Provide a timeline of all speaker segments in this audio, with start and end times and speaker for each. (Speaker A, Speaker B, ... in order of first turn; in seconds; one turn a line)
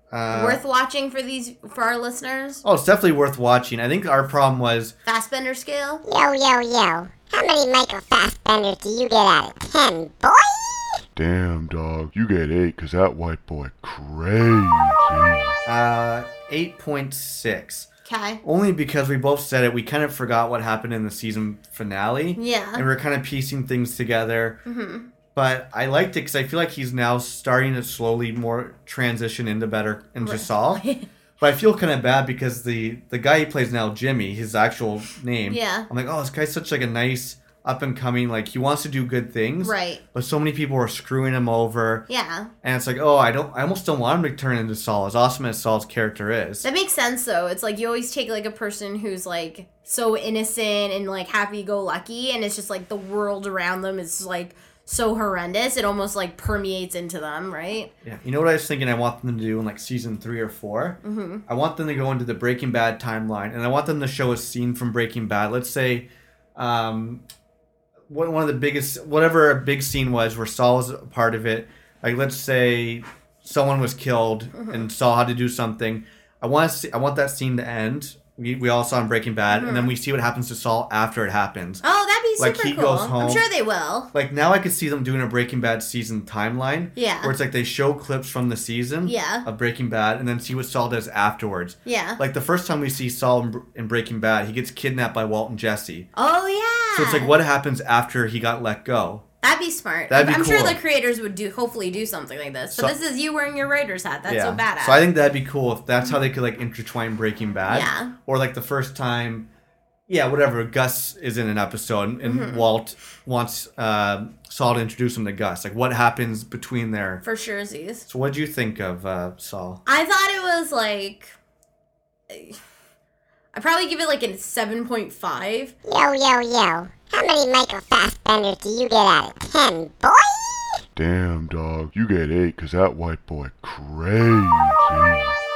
Speaker A: 0.1-0.6
Speaker B: 0.3-2.6
Speaker A: 2.6-5.0
Speaker B: 5.0-6.0
Speaker C: 6.0-11.0
Speaker D: 11.2-15.6
Speaker A: 15.7-17.9
Speaker B: 18.1-18.4
Speaker A: 18.4-24.6
Speaker B: 22.4-22.9
Speaker B: 24.7-25.1
Speaker A: 25.4-30.8
Speaker B: 30.2-31.1
Speaker A: 31.4-42.0
Speaker B: 35.5-35.9
Speaker B: 39.6-40.0
Speaker B: 42.1-42.5
Speaker A: 42.6-46.7
Speaker B: 46.6-57.9
Speaker A: 58.0-67.2
Speaker B: 61.0-61.4
Speaker A: 68.1-81.8
Speaker B: 74.5-74.9
Speaker B: 79.5-79.9
Speaker B: 81.8-84.1
Speaker A: 82.4-83.5
Speaker A: 84.1-96.1
Speaker B: 87.0-87.3
Speaker B: 89.0-89.5
Speaker B: 91.8-92.2
Speaker B: 96.2-97.3
Speaker A: 97.0-99.2
Speaker B: 99.4-105.0
Speaker A: 100.1-100.8
Speaker A: 104.3-109.5
Speaker B: 107.7-108.1
Speaker A: 110.1-117.2
Speaker B: 112.2-112.7
Speaker B: 117.2-118.1
Speaker A: 118.1-119.8
Speaker B: 119.9-121.3
Speaker B: 122.3-122.6
Speaker B: 123.5-125.7
Speaker C: 125.9-130.8
Speaker D: 131.0-135.4